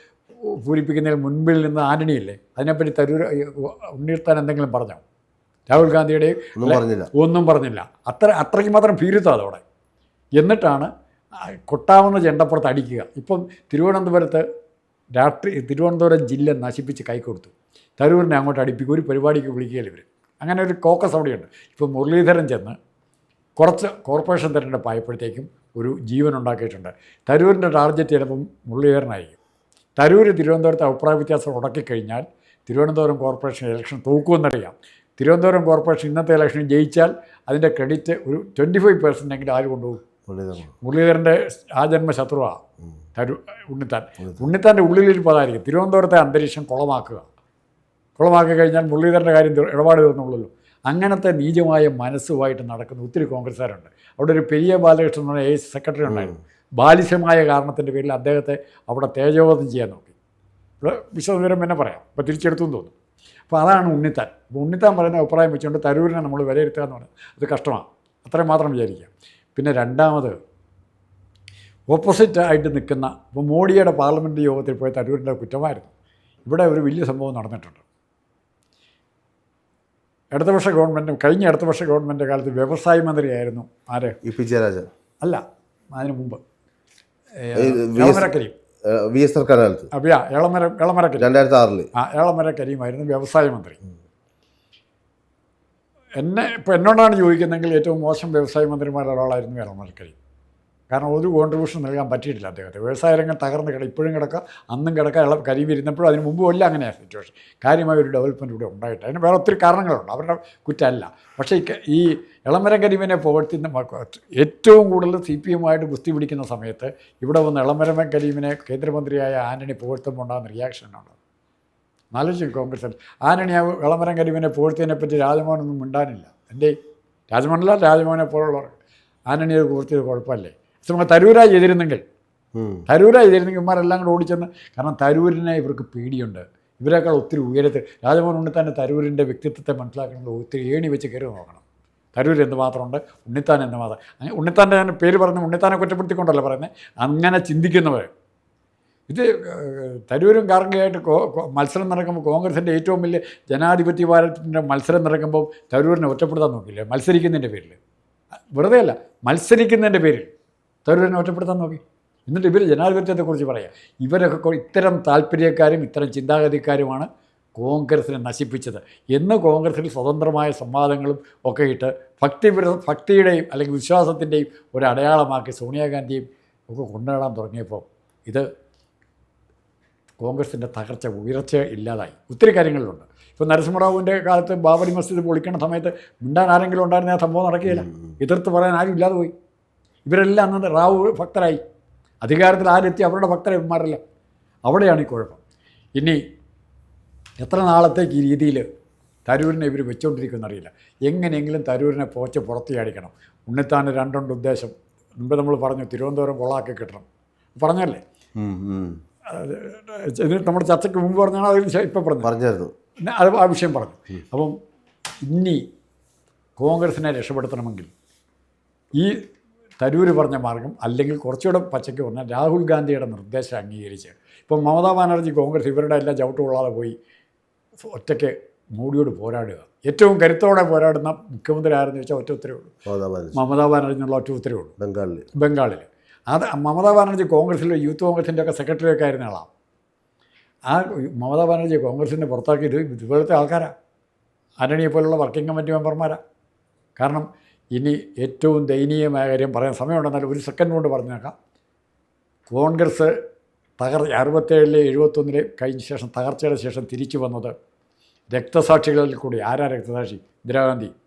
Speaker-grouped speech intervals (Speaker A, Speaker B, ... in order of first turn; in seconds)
Speaker A: 0.4-5.0, 5.7-9.6, 10.4-10.9, 11.4-14.4, 15.2-22.8, 23.6-29.3, 30.0-40.0, 40.8-42.6, 43.1-47.3, 48.2-60.1, 60.8-62.9, 63.5-70.3, 71.9-75.9, 76.5-77.8, 80.3-84.2, 85.9-86.4, 87.4-88.5, 89.9-91.3, 92.0-93.8, 96.2-100.1, 100.9-121.2, 122.1-126.7, 127.3-128.7, 129.3-132.0, 132.9-141.6, 142.1-148.1, 149.1-157.8, 158.5-160.3, 160.8-178.5, 180.2-189.3, 190.1-191.6, 192.2-194.0, 194.7-195.4, 197.4-198.6, 199.3-207.0, 207.6-208.0, 209.3-212.3, 213.0-214.6, 215.2-215.6, 216.6-217.9, 218.9-219.2, 219.8-226.9, 227.8-232.8, 233.3-234.7, 235.3-239.5, 240.7-243.7, 244.6-246.2, 247.0-251.3, 252.5-253.1, 253.8-257.5, 258.3-260.9
Speaker B: 6.5-7.1, 40.3-40.7, 56.1-56.4, 84.2-84.9, 87.5-88.3, 88.8-89.9, 91.2-91.9, 132.6-132.8, 208.4-209.0, 212.2-212.7, 232.8-233.4, 234.8-235.2